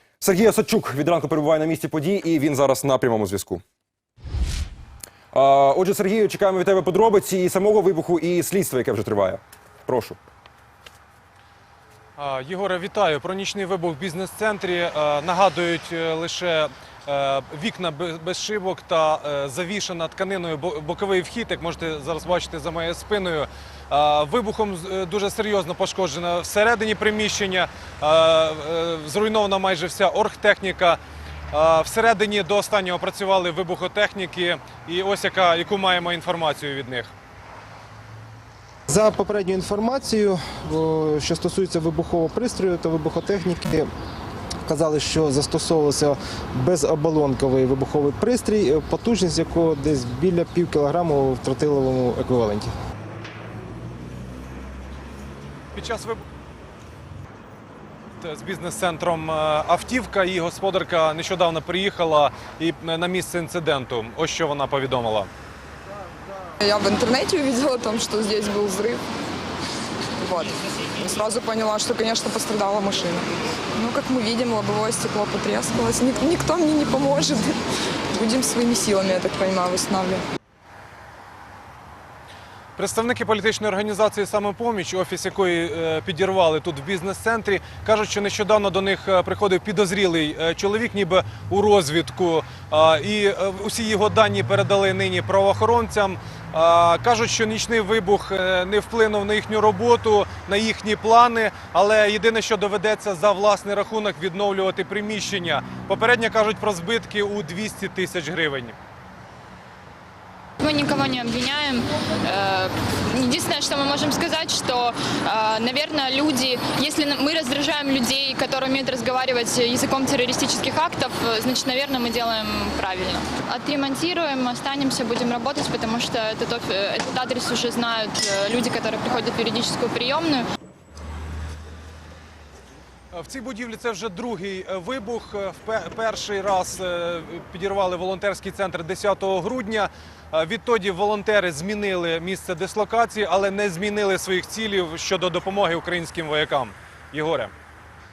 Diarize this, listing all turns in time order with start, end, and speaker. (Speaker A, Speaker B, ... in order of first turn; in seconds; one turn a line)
Speaker A: 0.2-3.6
Speaker A: 5.3-10.2
Speaker B: 12.2-31.0
Speaker B: 31.5-37.1
Speaker C: 38.9-43.9
Speaker C: 44.6-52.7
Speaker B: 55.7-56.2
Speaker B: 58.2-65.3
Speaker D: 66.6-69.0
Speaker D: 70.2-77.6
Speaker D: 78.1-80.2
Speaker B: 82.8-108.8
Speaker E: 110.6-130.4
Speaker B: 133.1-147.5